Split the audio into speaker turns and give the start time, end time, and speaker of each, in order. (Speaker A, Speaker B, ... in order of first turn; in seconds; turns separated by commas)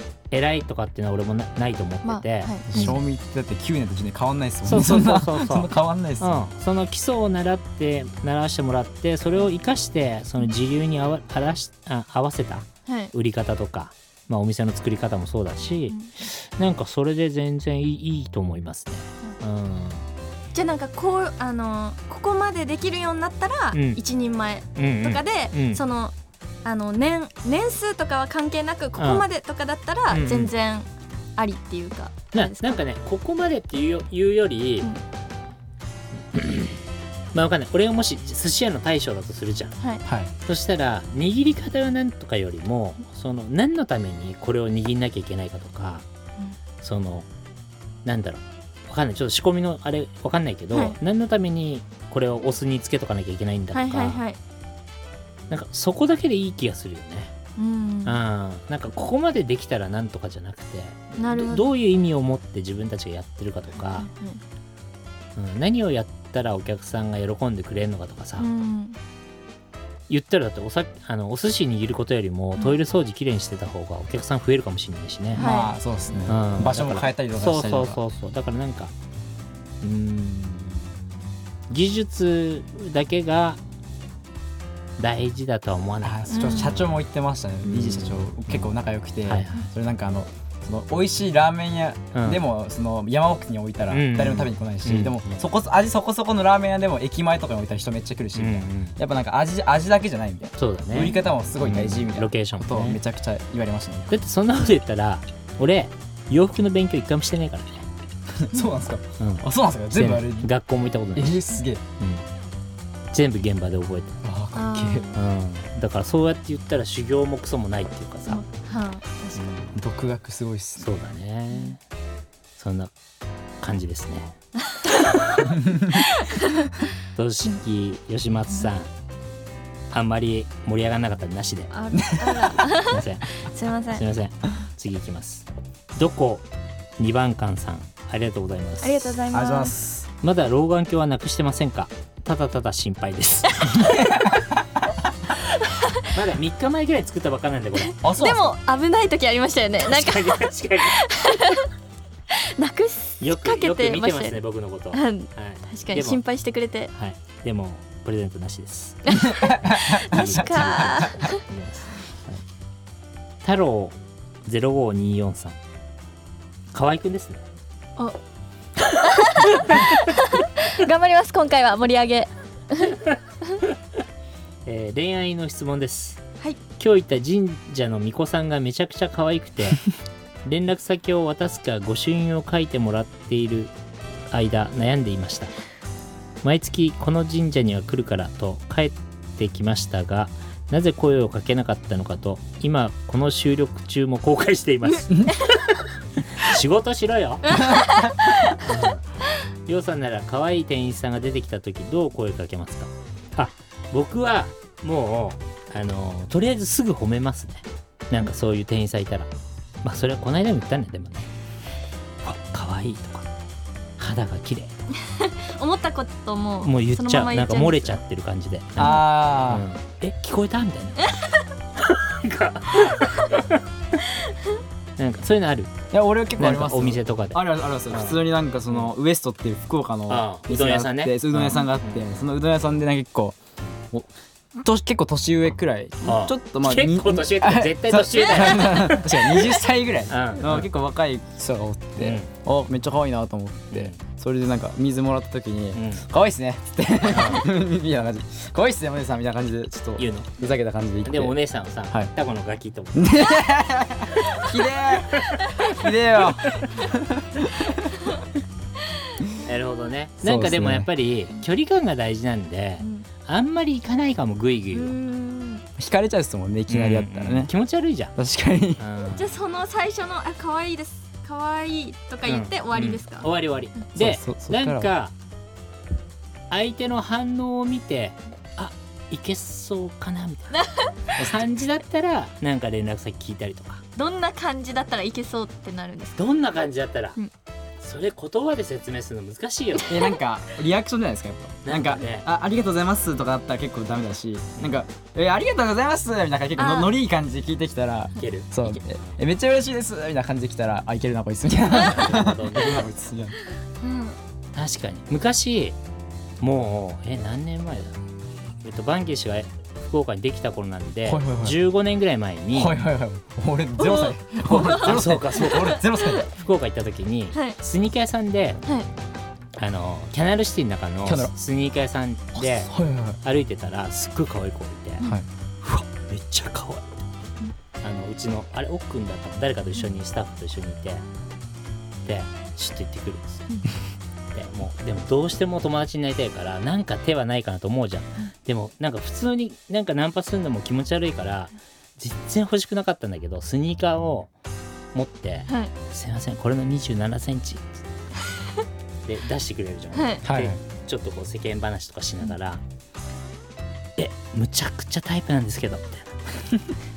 Speaker A: 0.3-3.0, Speaker B: 2.0-3.0, Speaker C: 2.7-6.4, Speaker A: 4.6-20.1, Speaker B: 12.8-13.1, Speaker B: 20.5-26.1, Speaker A: 23.7-24.0, Speaker A: 24.8-25.8, Speaker B: 26.6-32.8, Speaker A: 29.0-29.2, Speaker A: 30.1-30.5, Speaker A: 32.3-34.9, Speaker A: 36.3-36.8, Speaker A: 37.3-39.8, Speaker C: 40.0-40.3, Speaker A: 40.4-46.0, Speaker A: 46.8-47.3, Speaker A: 48.0-54.2, Speaker B: 50.7-51.0, Speaker B: 53.7-54.4, Speaker A: 55.5-57.3, Speaker B: 57.6-58.2, Speaker A: 58.0-64.1, Speaker B: 61.2-61.7, Speaker B: 63.9-64.4, Speaker A: 65.3-68.5, Speaker B: 68.4-69.0, Speaker A: 70.1-75.5, Speaker B: 75.3-75.7, Speaker C: 75.3-78.0, Speaker A: 76.2-78.9, Speaker A: 79.8-81.0, Speaker A: 81.7-83.6, Speaker A: 85.0-86.7, Speaker C: 86.0-104.2, Speaker B: 86.3-86.9, Speaker A: 87.7-88.7, Speaker A: 89.2-89.7, Speaker A: 92.1-92.4, Speaker A: 93.9-95.3, Speaker A: 98.3-99.0, Speaker A: 100.6-103.0, Speaker A: 104.1-107.9, Speaker C: 108.3-110.5, Speaker A: 109.2-111.5, Speaker C: 111.1-111.8, Speaker A: 112.0-112.3, Speaker A: 113.1-114.2, Speaker C: 114.2-115.1, Speaker B: 114.5-115.2, Speaker A: 115.1-118.4, Speaker B: 118.3-119.6, Speaker A: 119.3-119.8, Speaker C: 119.7-120.9, Speaker A: 120.8-121.8, Speaker A: 122.6-122.9, Speaker A: 123.6-124.4, Speaker B: 124.7-125.1, Speaker A: 125.0-125.6, Speaker C: 125.6-125.9, Speaker B: 125.9-126.7, Speaker A: 127.1-128.9, Speaker A: 129.9-131.7, Speaker B: 131.7-134.0, Speaker C: 131.9-132.6, Speaker A: 132.9-133.4, Speaker A: 133.9-136.4, Speaker A: 137.0-139.2, Speaker B: 138.8-139.8, Speaker C: 139.3-140.1, Speaker A: 140.2-144.0, Speaker C: 143.7-144.6, Speaker B: 145.6-146.0, Speaker A: 146.1-148.0, Speaker B: 147.8-151.7, Speaker C: 148.0-148.6, Speaker A: 149.8-151.0, Speaker B: 152.3-154.4, Speaker A: 153.2-156.2, Speaker B: 154.9-156.9, Speaker A: 156.9-159.2, Speaker B: 159.1-161.4, Speaker C: 159.2-161.1, Speaker A: 159.7-162.4, Speaker A: 163.4-165.6, Speaker A: 166.7-167.4, Speaker B: 168.9-173.6, Speaker A: 174.7-176.2, Speaker A: 176.8-179.8, Speaker A: 180.4-183.7, Speaker A: 184.3-185.5, Speaker A: 186.4-197.6, Speaker B: 197.5-198.6, Speaker C: 197.5-198.1, Speaker A: 198.6-199.0, Speaker A: 199.6-209.3, Speaker A: 209.8-211.3, Speaker A: 212.2-213.3, Speaker A: 214.0-214.7, Speaker B: 215.0-218.0, Speaker A: 216.6-221.1, Speaker C: 218.8-219.7, Speaker B: 221.0-221.2, Speaker A: 221.8-223.6, Speaker A: 225.0-225.8, Speaker C: 225.9-233.4, Speaker A: 226.4-228.2, Speaker A: 230.1-232.0, Speaker C: 233.9-251.3, Speaker A: 236.0-239.4, Speaker A: 240.1-240.7, Speaker A: 242.0-242.3, Speaker A: 243.7-244.0, Speaker A: 245.7-246.0, Speaker A: 247.1-247.4, Speaker A: 250.0-250.3, Speaker A: 251.0-253.2, Speaker C: 252.9-258.0, Speaker A: 255.1-255.7, Speaker A: 256.5-256.8, Speaker A: 259.4-264.9, Speaker C: 260.2-260.9, Speaker B: 262.8-263.1, Speaker B: 264.7-265.6, Speaker C: 265.8-267.5, Speaker A: 266.7-268.1, Speaker C: 268.1-268.8, Speaker A: 268.8-269.3, Speaker B: 269.1-273.3, Speaker A: 272.2-275.1, Speaker C: 273.9-274.9, Speaker A: 276.5-283.8, Speaker B: 280.6-280.9, Speaker C: 281.1-281.5, Speaker B: 283.9-286.2, Speaker A: 286.2-287.2, Speaker A: 287.8-290.1, Speaker C: 289.9-303.4, Speaker A: 291.6-292.3, Speaker B: 296.6-296.9, Speaker A: 298.2-299.2, Speaker A: 301.7-302.9, Speaker B: 303.8-304.1, Speaker A: 304.5-305.8, Speaker A: 306.4-308.0, Speaker A: 308.6-312.8, Speaker C: 311.1-311.6, Speaker C: 312.5-316.2, Speaker B: 313.8-316.3, Speaker A: 314.4-318.6, Speaker A: 319.6-325.1, Speaker C: 321.0-321.3, Speaker C: 322.4-323.2, Speaker A: 325.6-327.0, Speaker A: 327.8-331.0, Speaker A: 332.0-333.5, Speaker A: 334.3-344.3, Speaker A: 344.9-347.8, Speaker A: 349.1-352.6, Speaker B: 349.9-350.2, Speaker C: 350.2-350.6, Speaker A: 354.0-356.2